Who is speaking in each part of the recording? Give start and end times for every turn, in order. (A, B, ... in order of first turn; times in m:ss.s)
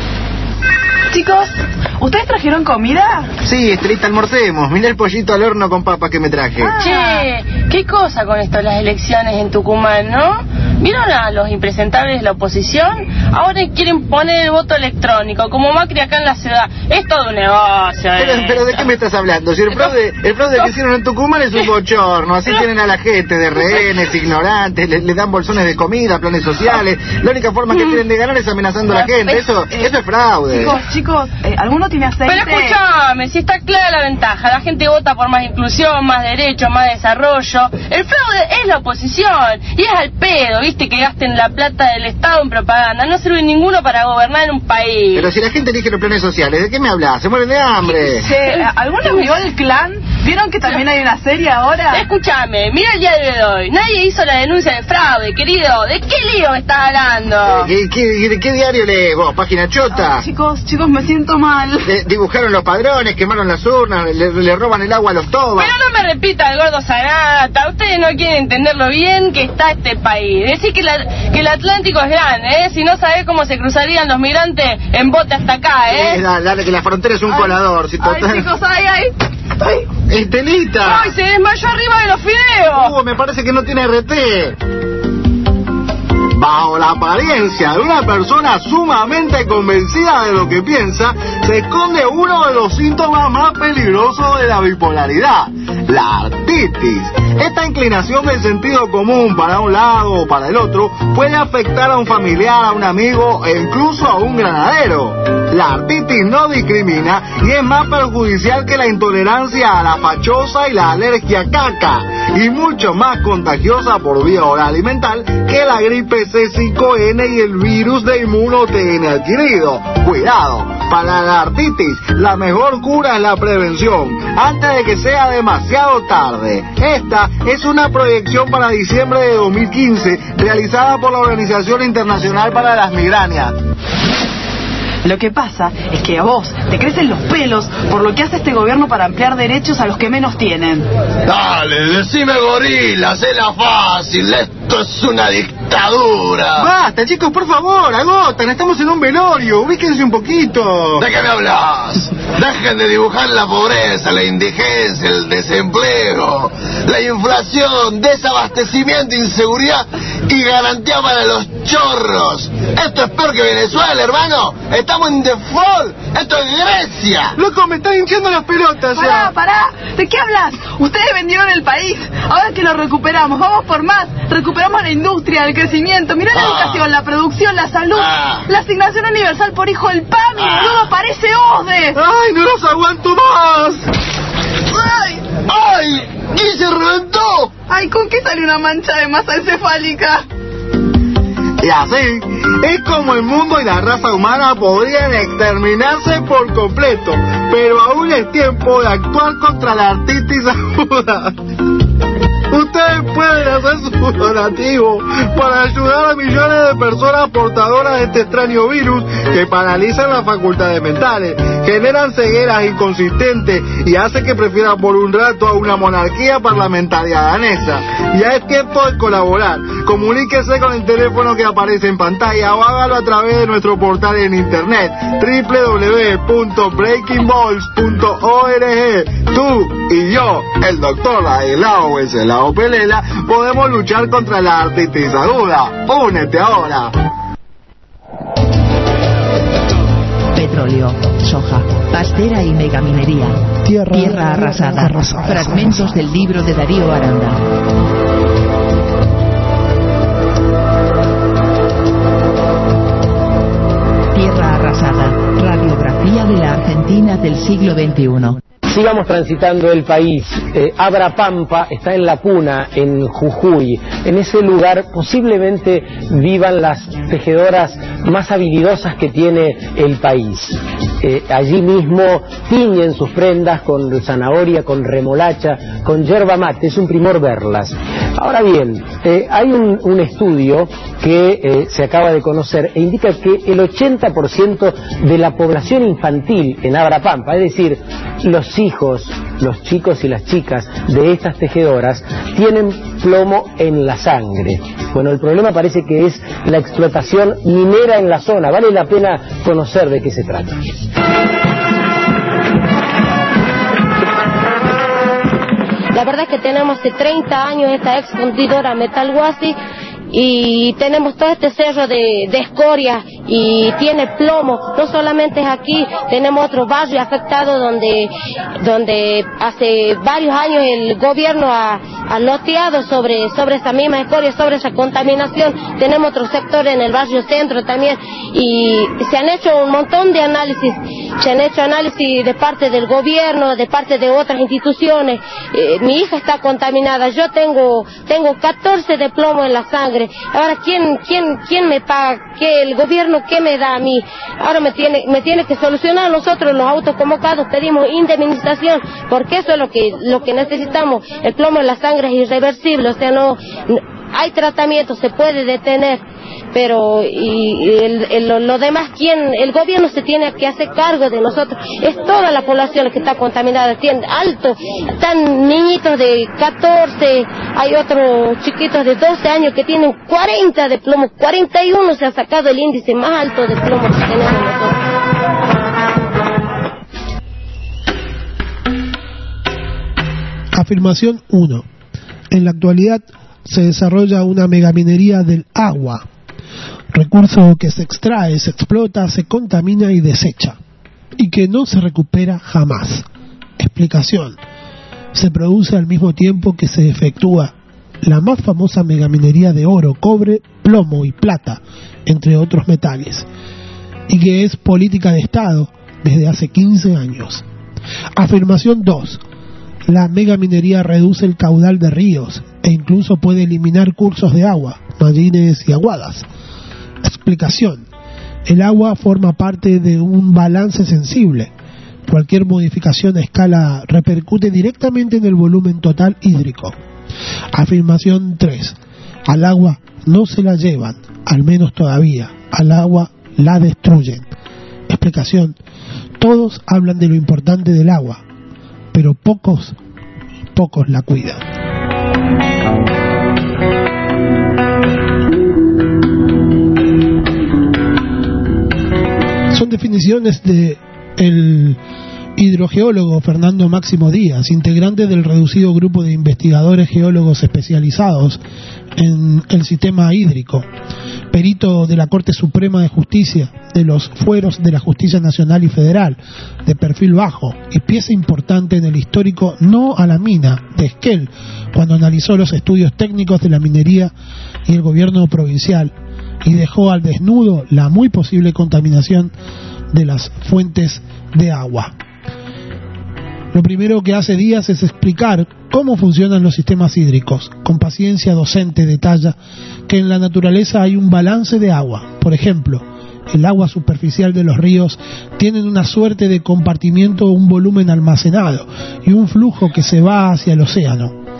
0:01.1-0:03.3 A
0:03.4-0:06.7 B
0:06.6-0:07.2 A
0:06.8-0:18.9 C
0:18.2-0:30.8 B
0:28.9-0:29.9 A
0:30.4-0:32.8 A
0:32.2-0:45.3 C
0:45.1-0:48.3 B
0:47.8-0:52.0 A
0:49.0-0:49.4 C
0:51.9-0:57.7 C
0:57.5-1:00.2 B
1:00.0-1:01.9 A
1:01.8-1:05.7 B
1:05.6-1:16.2 C
1:15.9-1:18.5 B
1:18.0-1:19.1 A
1:20.1-1:21.1 B
1:20.8-1:22.9 C
1:22.7-1:24.6 B
1:26.4-2:13.5 B
2:15.0-2:20.9 A
2:21.2-2:26.7 D
2:26.6-2:31.0 B
2:31.0-2:47.4 D
2:47.4-2:49.3 B
2:48.9-3:02.0 A
2:56.4-2:56.8 D
2:57.9-2:58.4 D
3:00.4-3:00.8 D
3:01.9-3:03.9 B
3:04.9-3:05.2 A
3:05.4-3:07.5 D
3:07.7-3:10.2 A
3:11.6-3:21.3 B
3:22.5-3:56.9 B
4:00.3-4:07.4 E
4:03.6-4:06.0 F
4:14.1-4:18.4 E
4:18.7-5:00.6 G
5:05.9-5:09.6 H
5:10.1-5:56.0 H
5:56.5-6:14.7 H
6:20.5-6:21.6 F
6:22.3-6:26.0 F
6:26.9-6:30.6 F
6:31.2-6:33.0 F
6:33.6-6:34.4 F
6:35.1-6:43.3 F
6:44.1-6:47.4 F
6:48.1-6:49.2 F
6:49.9-6:56.2 F
6:57.0-6:57.9 F
6:58.5-7:01.5 F
7:02.1-7:06.7 F
7:07.5-7:14.3 F
7:14.9-7:15.6 F
7:16.2-7:18.2 F
7:18.9-7:19.8 F
7:20.5-7:21.4 F
7:29.5-7:31.8 F
7:32.4-7:38.4 F
7:39.0-7:40.7 F
7:41.3-7:54.1 F
7:54.7-7:59.3 F
7:59.9-8:01.9 F
8:03.5-8:09.3 F
8:09.9-8:21.2 F